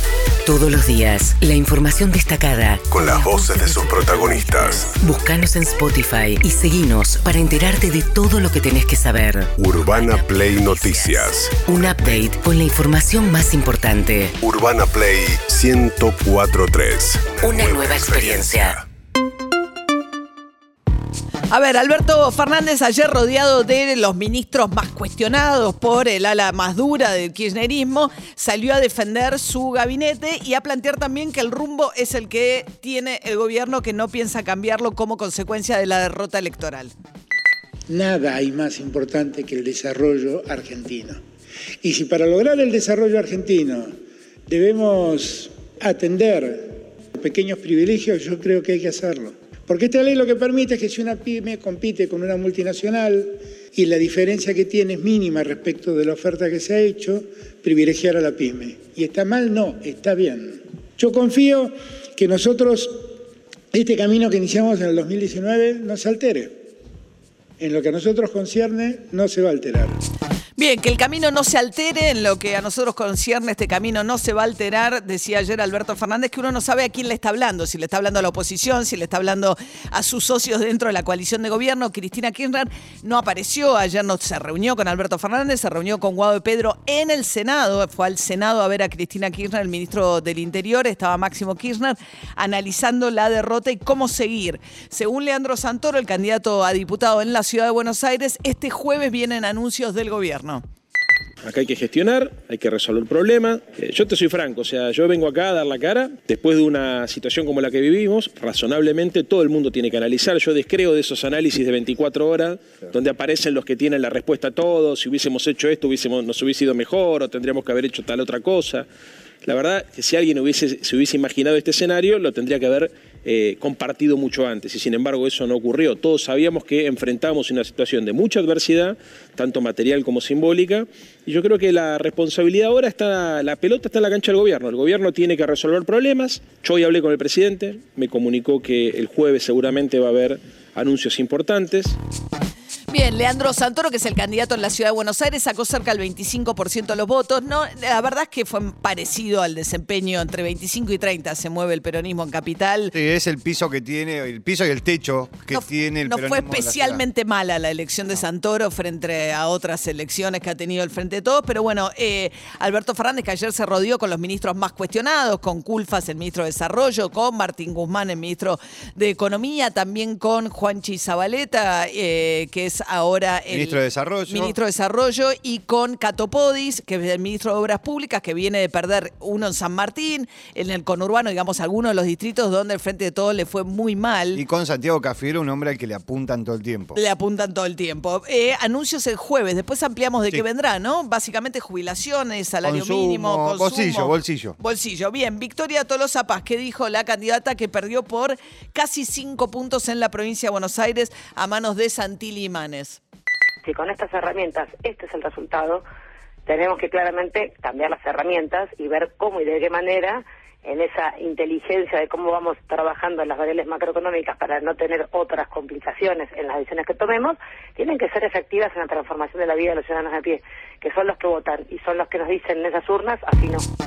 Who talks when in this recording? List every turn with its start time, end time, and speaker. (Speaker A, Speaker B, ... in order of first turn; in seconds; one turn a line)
Speaker A: 0.5-14.3
Speaker B: 2.8-4.9
Speaker B: 9.6-12.2
Speaker B: 14.4-18.8
Speaker A: 17.4-18.8
Speaker C: 21.5-36.9
Speaker D: 37.9-41.2
Speaker D: 41.8-43.9
Speaker D: 44.5-46.6
Speaker D: 47.2-62.9
Speaker D: 63.7-66.5
Speaker D: 67.6-70.0
Speaker C: 70.5-100.6
Speaker E: 101.5-118.8
Speaker E: 119.4-141.9
Speaker C: 142.9-152.9
Speaker F: 152.9-157.0
Speaker C: 155.5-184.4
Speaker F: 173.5-174.5
Speaker F: 184.3-187.0
Speaker C: 186.9-203.0
Speaker F: 192.6-194.6
Speaker G: 203.6-205.8
Speaker G: 206.4-223.6